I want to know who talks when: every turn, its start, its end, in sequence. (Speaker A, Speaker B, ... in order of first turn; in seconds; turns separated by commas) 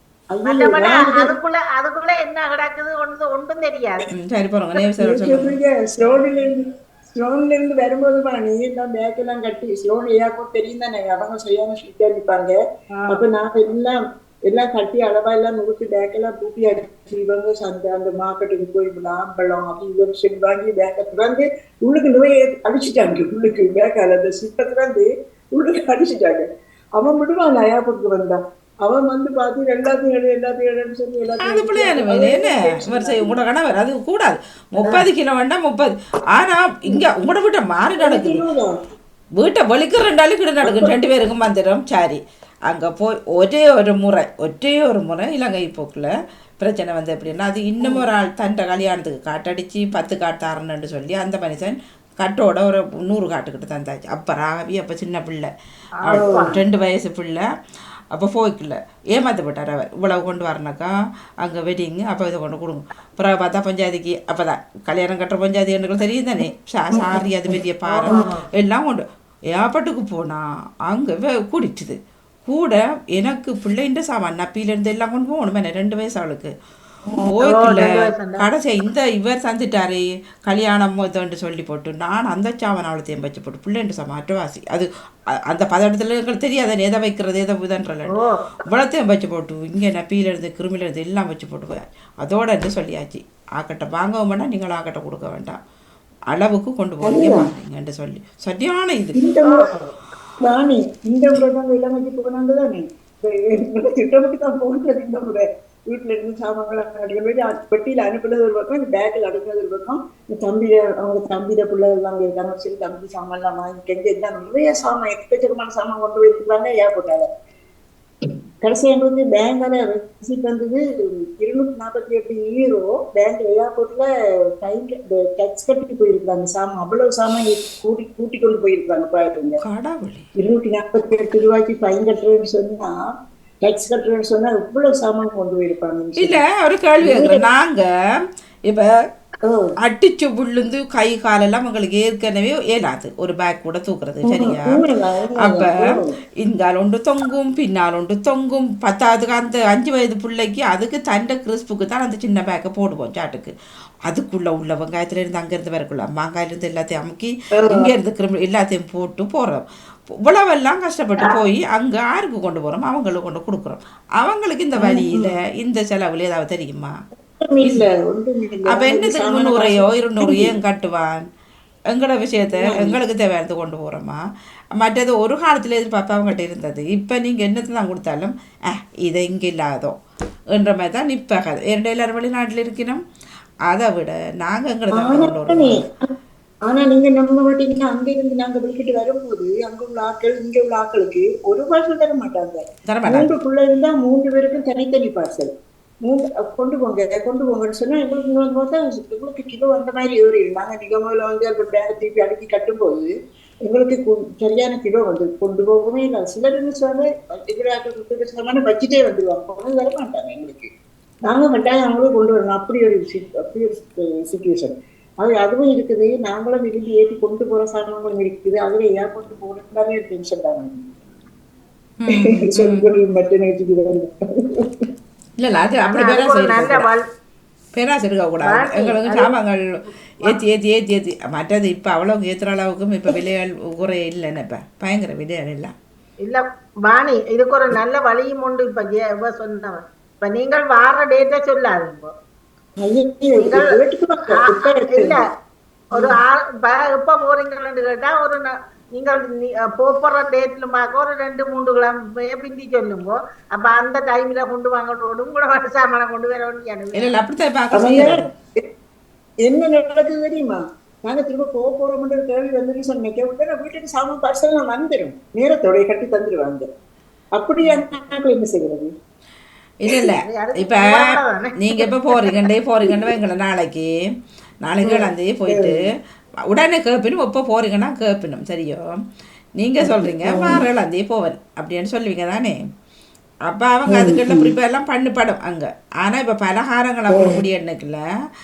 Speaker A: 0.3-1.3, Speaker B: 0.4-4.1, Speaker C: 4.1-5.6, Speaker A: 4.9-12.6, Speaker B: 12.9-13.2, Speaker A: 13.1-26.4, Speaker A: 27.0-33.4, Speaker C: 31.4-38.4, Speaker A: 34.8-35.0, Speaker A: 38.0-38.7, Speaker C: 39.4-46.1, Speaker A: 40.6-40.9, Speaker C: 46.6-55.5, Speaker A: 47.8-48.0, Speaker B: 56.0-56.5, Speaker C: 56.0-57.5, Speaker A: 56.1-56.6, Speaker C: 58.1-76.5, Speaker A: 66.9-68.3, Speaker B: 67.9-68.5, Speaker C: 77.3-88.1, Speaker B: 77.4-78.5, Speaker C: 88.7-95.6, Speaker C: 96.3-99.2, Speaker A: 97.0-97.5, Speaker A: 99.1-99.8, Speaker B: 99.4-99.7, Speaker A: 100.4-117.3, Speaker A: 118.6-124.1, Speaker A: 124.6-129.6, Speaker C: 129.6-130.3, Speaker A: 130.4-133.0, Speaker A: 133.6-136.4, Speaker C: 136.2-137.8, Speaker A: 137.0-137.4, Speaker C: 138.7-138.9, Speaker A: 139.4-139.7, Speaker C: 139.8-144.8, Speaker A: 144.2-146.2, Speaker C: 145.4-153.5, Speaker C: 154.1-166.9, Speaker A: 157.5-157.9, Speaker A: 164.8-165.3, Speaker A: 167.4-170.5, Speaker C: 168.7-171.2, Speaker C: 171.9-174.2, Speaker A: 172.6-173.0, Speaker C: 174.8-179.9, Speaker C: 180.5-183.0, Speaker C: 183.7-185.8, Speaker A: 184.9-186.1, Speaker A: 186.7-195.5, Speaker C: 192.9-193.3, Speaker A: 196.0-203.1, Speaker A: 203.6-210.7, Speaker A: 211.2-220.8, Speaker C: 222.0-222.9, Speaker A: 222.1-224.9, Speaker C: 225.4-226.9, Speaker B: 225.8-227.0, Speaker C: 227.7-229.6, Speaker B: 228.4-229.3, Speaker C: 230.2-235.7, Speaker B: 236.2-242.1, Speaker A: 242.8-245.2, Speaker B: 243.4-245.2, Speaker B: 245.9-257.1, Speaker C: 256.9-258.3, Speaker A: 257.7-258.7, Speaker A: 259.4-266.7, Speaker A: 267.3-268.9, Speaker C: 269.8-273.9, Speaker B: 270.2-271.6, Speaker C: 274.6-275.9, Speaker A: 274.8-275.9, Speaker C: 276.5-279.0, Speaker C: 279.6-282.6, Speaker A: 279.8-280.6, Speaker C: 283.5-288.0, Speaker A: 283.9-284.5, Speaker A: 287.1-287.4